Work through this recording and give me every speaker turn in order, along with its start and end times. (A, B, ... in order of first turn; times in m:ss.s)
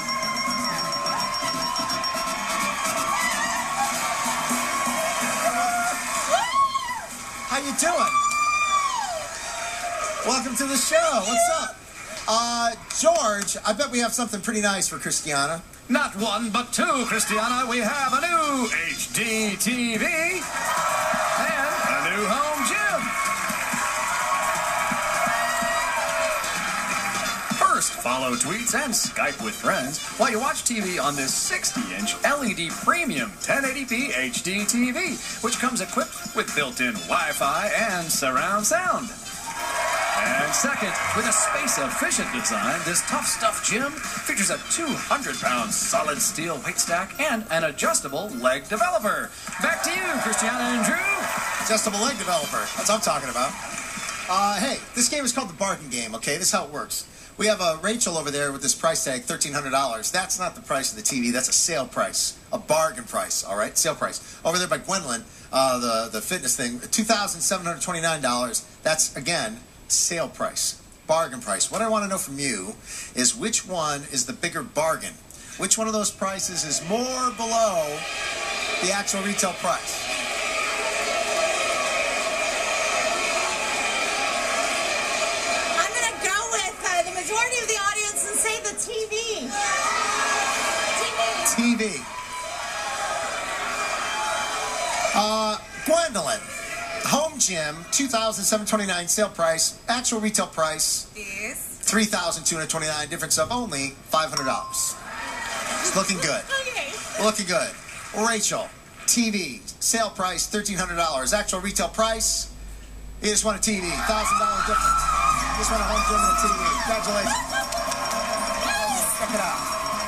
0:07.5-0:08.2 A
0:10.2-0:15.6 A
0:15.9-0:20.4 B
0:21.3-0:23.1 B
0:27.5-0:39.2 B
0:40.1-0:51.3 B
0:51.6-0:53.6 A
0:54.3-1:18.1 A
1:18.8-1:20.0 A
1:25.8-1:29.6 C
1:31.0-1:31.4 C
1:31.4-1:32.1 A
1:35.1-1:36.5 A
1:37.0-1:41.3 A
1:41.2-1:41.7 C
1:41.8-1:45.0 A
1:45.8-1:46.6 A
1:46.7-1:47.1 C
1:47.1-1:52.5 A
1:53.2-1:57.4 A
1:58.8-1:59.6 A